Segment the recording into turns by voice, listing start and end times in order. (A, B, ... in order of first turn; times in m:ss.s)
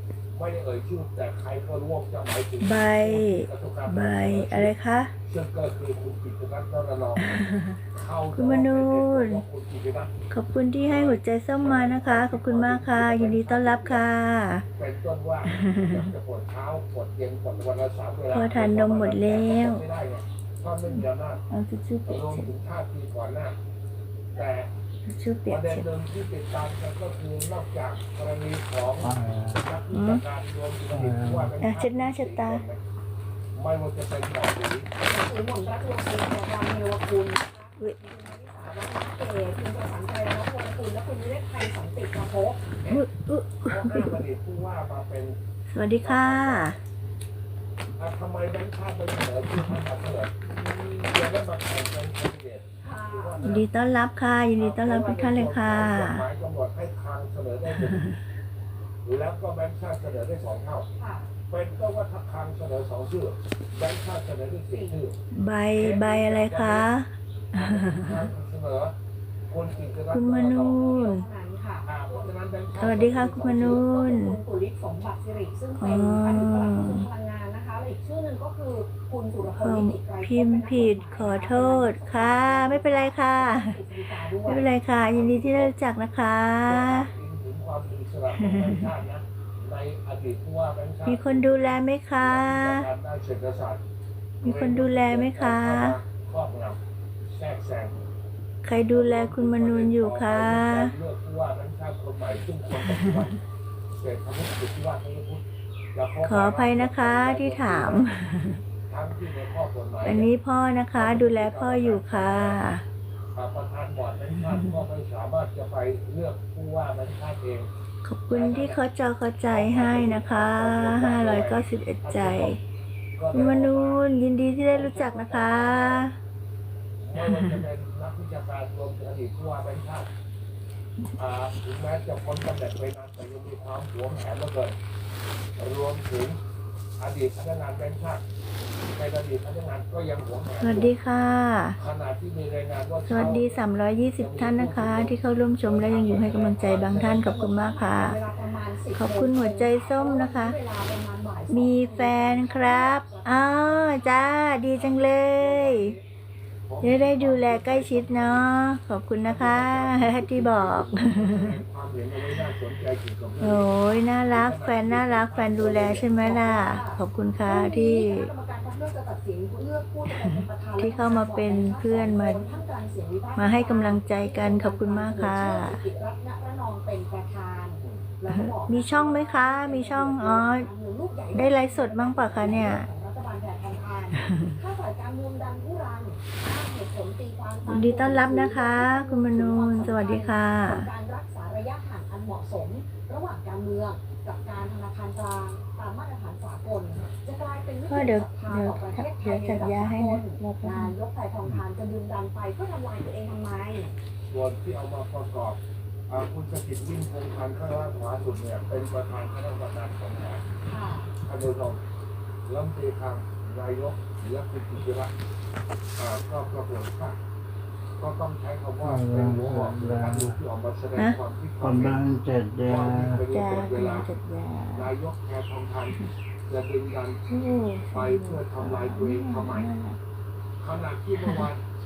0:00.4-0:04.7 A
0:02.6-0:05.1 B
0:05.3-0:10.1 A
0:07.2-0:07.8 B
0:08.3-0:09.4 B
0:10.3-0:14.7 B
0:10.8-0:14.0 A
0:14.8-0:21.4 A
0:15.5-0:16.1 B
0:18.3-0:19.8 B
0:20.9-0:22.5 B
0:22.1-0:23.6 A
0:24.3-0:24.7 A
0:25.1-0:25.9 B
0:25.5-0:32.8 A
0:29.0-0:29.8 C
0:29.9-0:30.2 B
0:30.9-0:31.5 C
0:31.6-0:32.6 B
0:33.6-0:34.9 A
0:35.0-0:42.6 D
0:38.6-0:39.0 A
0:42.8-0:43.1 A
0:42.9-0:44.1 B
0:43.6-0:45.4 A
0:45.7-0:46.8 B
0:46.0-0:46.8 A
0:48.0-0:50.3 A
0:50.5-0:51.2 D
0:51.0-0:53.7 A
0:52.8-0:53.4 D
0:53.4-0:56.3 B
0:54.6-0:58.1 A
0:57.7-0:58.1 B
0:59.0-1:00.9 A
1:01.0-1:01.3 D
1:01.5-1:05.2 A
1:04.7-1:05.0 D
1:05.3-1:08.3 B
1:05.8-1:06.9 A
1:07.5-1:09.0 A
1:09.5-1:11.1 A
1:10.1-1:11.2 B
1:10.6-1:12.3 D
1:11.9-1:13.8 A
1:12.8-1:14.4 B
1:13.4-1:24.7 D
1:15.8-1:17.0 B
1:19.6-1:23.8 B
1:24.4-1:27.1 B
1:25.1-1:25.7 A
1:26.6-1:33.8 A
1:28.4-1:28.9 B
1:31.1-1:32.9 B
1:34.4-1:36.8 A
1:34.4-1:36.0 B
1:37.3-1:38.0 A
1:38.6-1:40.9 B
1:38.9-1:43.4 A
1:42.8-1:43.3 B
1:44.0-1:48.1 A
1:46.2-1:48.6 B
1:48.9-1:50.3 A
1:50.0-1:52.8 B
1:51.0-1:52.6 A
1:53.3-1:57.7 A
1:58.0-2:02.6 B
1:58.3-1:58.8 A
1:59.5-2:02.6 A
2:03.2-2:04.0 A
2:03.3-2:06.2 B
2:04.7-2:06.1 A
2:07.0-2:10.1 A
2:07.2-2:07.6 B
2:11.2-2:14.8 A
2:15.6-2:16.4 A
2:17.0-2:18.2 A
2:18.9-2:20.9 A
2:20.6-2:21.8 B
2:21.8-2:23.6 A
2:23.1-2:28.2 B
2:24.2-2:27.4 A
2:27.0-2:34.2 D
2:29.0-2:30.6 B
2:31.5-2:36.0 B
2:34.7-2:36.0 A
2:36.7-2:38.5 A
2:36.8-2:41.6 B
2:39.2-2:46.1 A
2:43.4-2:48.3 B
2:46.2-3:24.0 D
2:50.1-2:52.4 B
2:53.4-2:55.8 B
2:57.8-2:58.1 A
2:58.3-3:00.7 B
3:01.3-3:02.9 B
3:07.7-3:10.9 B
3:17.9-3:20.9 B
3:24.3-3:30.4 A
3:30.6-3:31.1 D
3:31.2-3:31.8 A
3:32.5-3:35.1 A
3:36.0-3:37.2 A
3:38.0-3:42.1 A
3:38.8-3:40.4 C
3:41.6-3:43.2 C
3:42.6-3:44.1 A
3:43.3-3:44.9 B
3:44.7-3:47.2 A
3:47.3-3:50.0 B
3:47.9-3:49.7 A
3:50.6-3:51.6 A
3:51.2-3:51.5 B